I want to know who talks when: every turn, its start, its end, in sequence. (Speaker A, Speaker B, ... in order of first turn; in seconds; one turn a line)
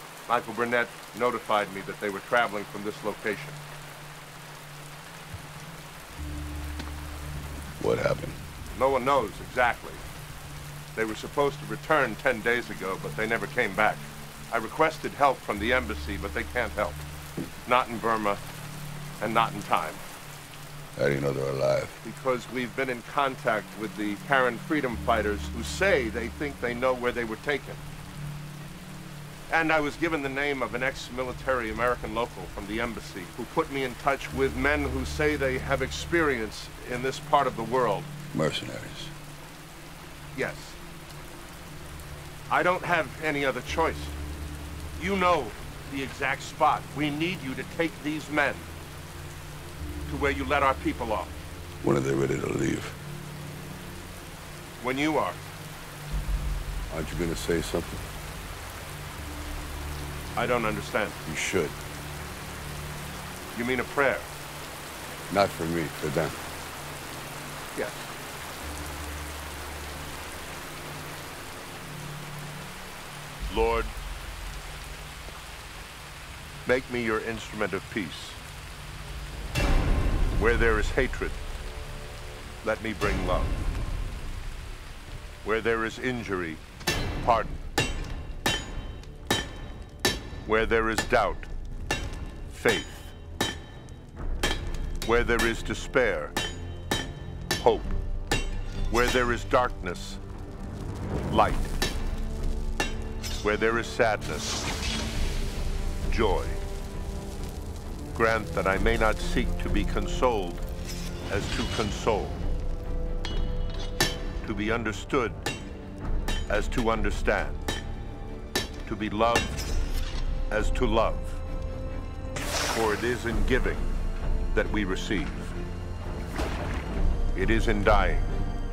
Speaker A: 0.3-3.6
Speaker B: 7.8-8.4
Speaker A: 8.7-10.0
Speaker A: 10.9-17.0
Speaker A: 17.6-18.4
Speaker A: 19.2-20.0
Speaker B: 21.0-22.0
Speaker A: 22.0-27.8
Speaker A: 29.5-38.1
Speaker B: 38.3-39.1
Speaker A: 40.4-40.8
Speaker A: 42.5-44.2
Speaker A: 45.0-48.7
Speaker A: 50.1-51.3
Speaker B: 51.8-53.0
Speaker A: 54.8-55.4
Speaker B: 56.9-58.0
Speaker A: 60.4-61.2
Speaker B: 61.3-61.8
Speaker A: 63.5-64.3
Speaker B: 65.3-66.4
Speaker A: 67.8-68.1
Speaker A: 73.5-73.9
Speaker A: 76.7-78.4
Speaker A: 80.3-81.4
Speaker A: 82.6-83.6
Speaker A: 85.4-86.6
Speaker A: 87.2-87.5
Speaker A: 90.5-91.5
Speaker A: 92.5-93.2
Speaker A: 95.1-96.4
Speaker A: 97.6-98.0
Speaker A: 98.9-100.2
Speaker A: 101.3-101.8
Speaker A: 103.4-104.6
Speaker A: 106.1-106.6
Speaker A: 108.1-110.7
Speaker A: 111.3-112.4
Speaker A: 114.4-115.4
Speaker A: 116.5-117.6
Speaker A: 118.9-119.6
Speaker A: 120.5-121.4
Speaker A: 122.7-123.9
Speaker A: 124.5-125.6
Speaker A: 127.3-128.3